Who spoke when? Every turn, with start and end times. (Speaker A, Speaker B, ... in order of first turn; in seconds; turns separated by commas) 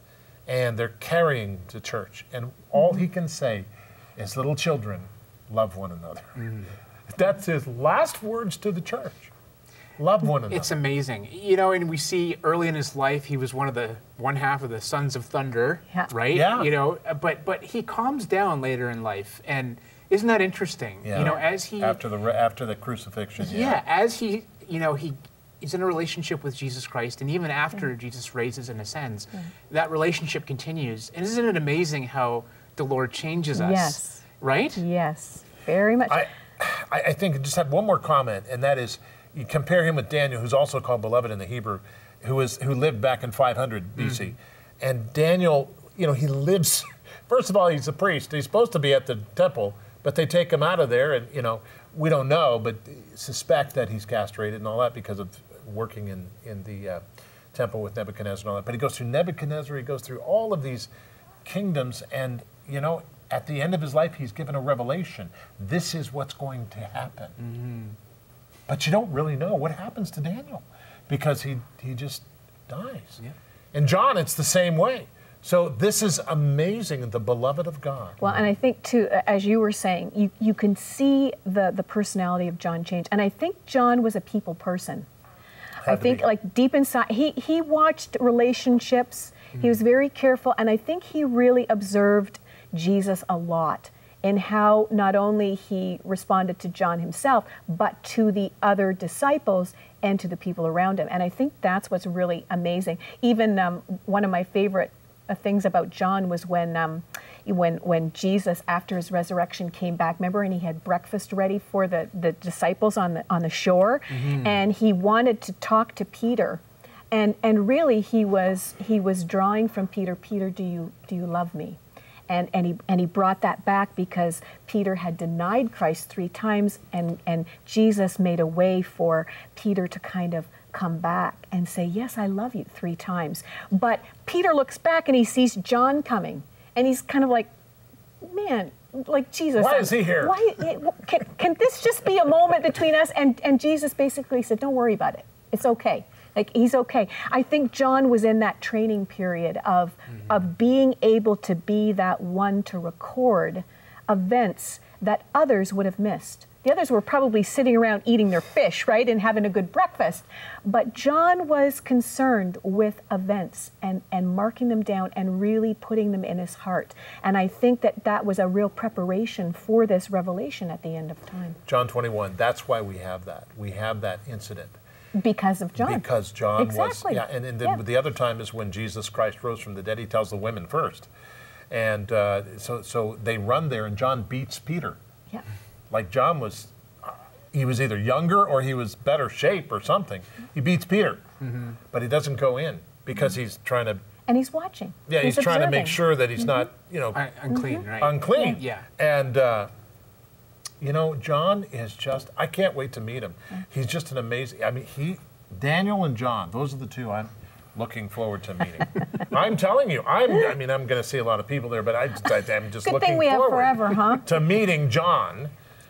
Speaker A: 0.5-6.5, Speaker B: 6.4-6.7, Speaker A: 7.1-9.3, Speaker A: 10.0-10.7, Speaker B: 10.5-22.0, Speaker A: 16.3-16.7, Speaker A: 21.0-23.8, Speaker B: 23.4-34.8, Speaker C: 33.5-36.3, Speaker A: 36.1-57.0, Speaker A: 57.5-60.9, Speaker A: 61.4-67.3, Speaker B: 67.4-68.0, Speaker A: 68.7-73.2, Speaker A: 73.7-78.2, Speaker C: 78.2-85.1, Speaker A: 85.8-86.3, Speaker C: 85.8-137.5, Speaker B: 114.1-114.6, Speaker C: 138.2-171.6, Speaker A: 139.6-140.5, Speaker A: 171.7-174.8, Speaker C: 175.2-177.8, Speaker A: 175.8-181.1, Speaker A: 181.7-185.0, Speaker A: 185.9-191.2, Speaker B: 191.4-191.8, Speaker A: 191.8-194.0, Speaker C: 194.3-196.6, Speaker A: 195.1-197.2, Speaker B: 197.1-198.9, Speaker C: 197.5-198.6, Speaker A: 198.0-199.7, Speaker A: 200.8-215.5, Speaker C: 212.8-214.3